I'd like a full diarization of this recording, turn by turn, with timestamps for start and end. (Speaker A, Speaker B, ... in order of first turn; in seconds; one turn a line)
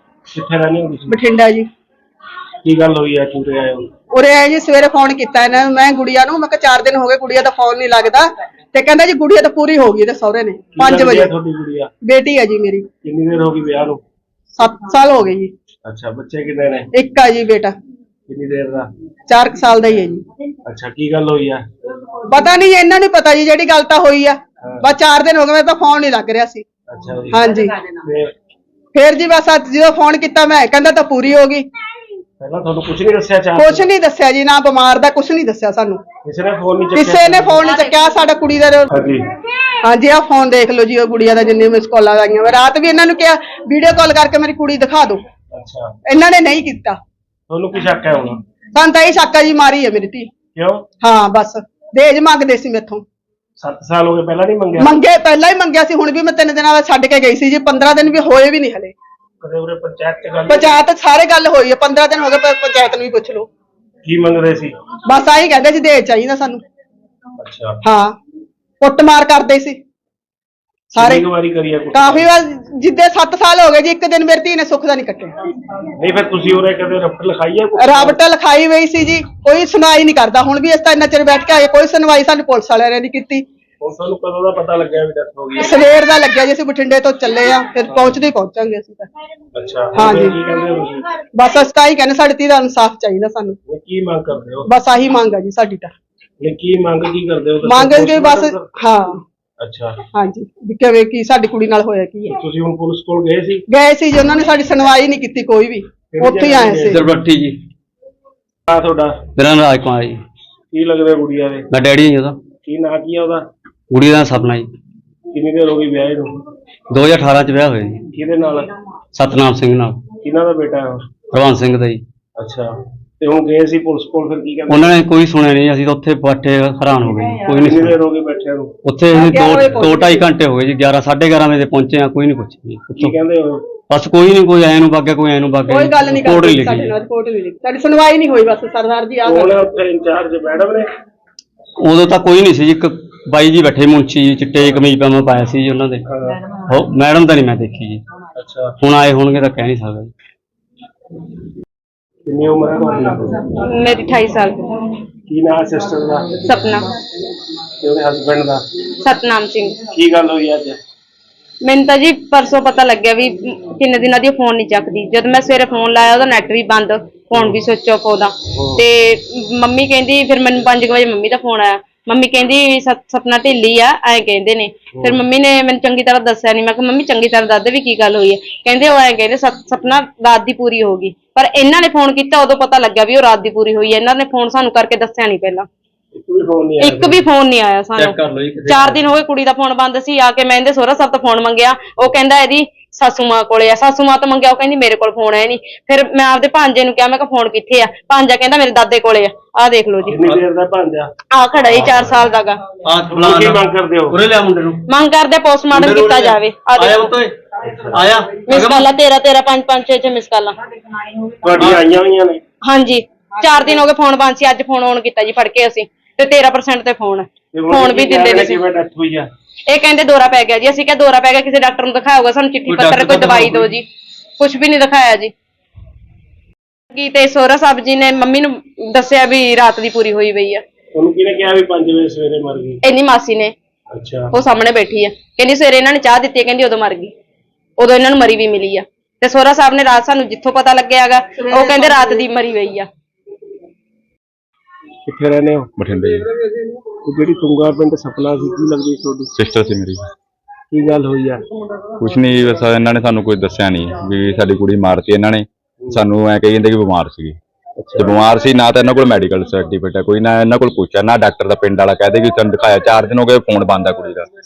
Speaker A: 0.3-1.2
Speaker B: 1.1-1.7
Speaker A: 2.6-3.9
Speaker B: 4.1-11.3
Speaker A: 10.7-11.9
Speaker B: 12.0-12.9
Speaker A: 13.0-14.0
Speaker B: 14.6-15.5
Speaker A: 15.8-16.9
Speaker B: 16.9-17.7
Speaker A: 18.3-18.9
Speaker B: 19.3-20.2
Speaker A: 20.6-21.7
Speaker B: 22.3-26.6
Speaker A: 24.6-24.9
Speaker A: 26.9-28.3
Speaker B: 27.3-27.7
Speaker B: 28.9-31.7
Speaker A: 32.4-33.9
Speaker B: 33.5-36.0
Speaker A: 36.2-37.7
Speaker B: 36.9-38.9
Speaker A: 38.9-39.3
Speaker B: 39.8-45.2
Speaker A: 45.5-45.9
Speaker B: 46.0-47.0
Speaker A: 47.5-48.4
Speaker B: 48.7-50.3
Speaker A: 50.5-50.9
Speaker B: 51.0-53.0
Speaker A: 53.6-55.0
Speaker B: 54.8-58.9
Speaker A: 59.4-60.8
Speaker B: 60.5-63.5
Speaker A: 64.0-64.7
Speaker B: 65.1-66.6
Speaker A: 67.4-67.8
Speaker B: 67.8-68.2
Speaker B: 68.8-69.8
Speaker B: 70.9-71.3
Speaker A: 70.9-72.3
Speaker B: 71.9-75.3
Speaker A: 76.0-78.2
Speaker B: 77.8-83.4
Speaker A: 83.8-85.8
Speaker B: 85.6-89.1
Speaker A: 89.5-91.1
Speaker B: 89.9-90.4
Speaker B: 91.3-93.6
Speaker A: 93.7-94.7
Speaker B: 94.7-95.9
Speaker A: 96.4-98.7
Speaker B: 97.6-99.2
Speaker A: 99.6-100.0
Speaker B: 100.1-102.3
Speaker A: 102.3-103.6
Speaker B: 103.7-107.0
Speaker A: 106.1-107.2
Speaker C: 107.0-107.5
Speaker A: 108.7-109.2
Speaker C: 109.3-110.1
Speaker A: 110.7-111.7
Speaker C: 111.7-112.3
Speaker A: 112.6-113.5
Speaker C: 113.9-114.6
Speaker A: 115.3-116.3
Speaker C: 116.9-118.0
Speaker A: 118.1-118.7
Speaker C: 119.2-120.0
Speaker A: 120.2-121.1
Speaker C: 121.3-122.0
Speaker A: 122.4-125.0
Speaker C: 124.7-127.9
Speaker A: 127.5-128.7
Speaker C: 128.8-133.1
Speaker B: 129.1-130.3
Speaker A: 132.9-133.6
Speaker C: 133.9-136.9
Speaker B: 135.7-139.6
Speaker A: 139.2-140.9
Speaker C: 141.8-146.0
Speaker A: 144.5-144.9
Speaker A: 146.1-146.4
Speaker C: 146.8-148.0
Speaker A: 148.4-148.8
Speaker C: 148.8-150.1
Speaker A: 152.3-153.5
Speaker D: 153.6-154.6
Speaker A: 155.3-156.3
Speaker D: 156.4-156.9
Speaker A: 157.8-158.7
Speaker D: 159.0-159.8
Speaker A: 159.9-160.8
Speaker D: 161.6-185.7
Speaker A: 168.5-168.8
Speaker A: 174.9-175.2
Speaker A: 186.1-187.3
Speaker D: 186.8-200.2
Speaker A: 200.0-201.1
Speaker D: 201.3-202.7
Speaker A: 201.7-202.2
Speaker A: 203.1-204.2
Speaker C: 204.2-204.8
Speaker D: 204.8-207.1
Speaker C: 206.8-207.2
Speaker A: 207.6-208.1
Speaker D: 208.4-210.6
Speaker A: 211.4-212.4
Speaker D: 212.6-218.6
Speaker A: 217.5-219.3
Speaker D: 219.7-223.8
Speaker D: 224.4-225.3
Speaker D: 226.9-230.6
Speaker A: 230.9-232.8
Speaker D: 232.8-233.5
Speaker A: 233.9-234.3
Speaker D: 234.3-237.1
Speaker D: 237.8-242.9
Speaker B: 241.4-242.3
Speaker A: 245.1-245.7
Speaker E: 245.8-246.2
Speaker A: 247.0-249.3
Speaker E: 249.3-250.0
Speaker A: 250.7-251.4
Speaker E: 252.0-257.4
Speaker A: 257.8-258.2
Speaker E: 258.0-264.3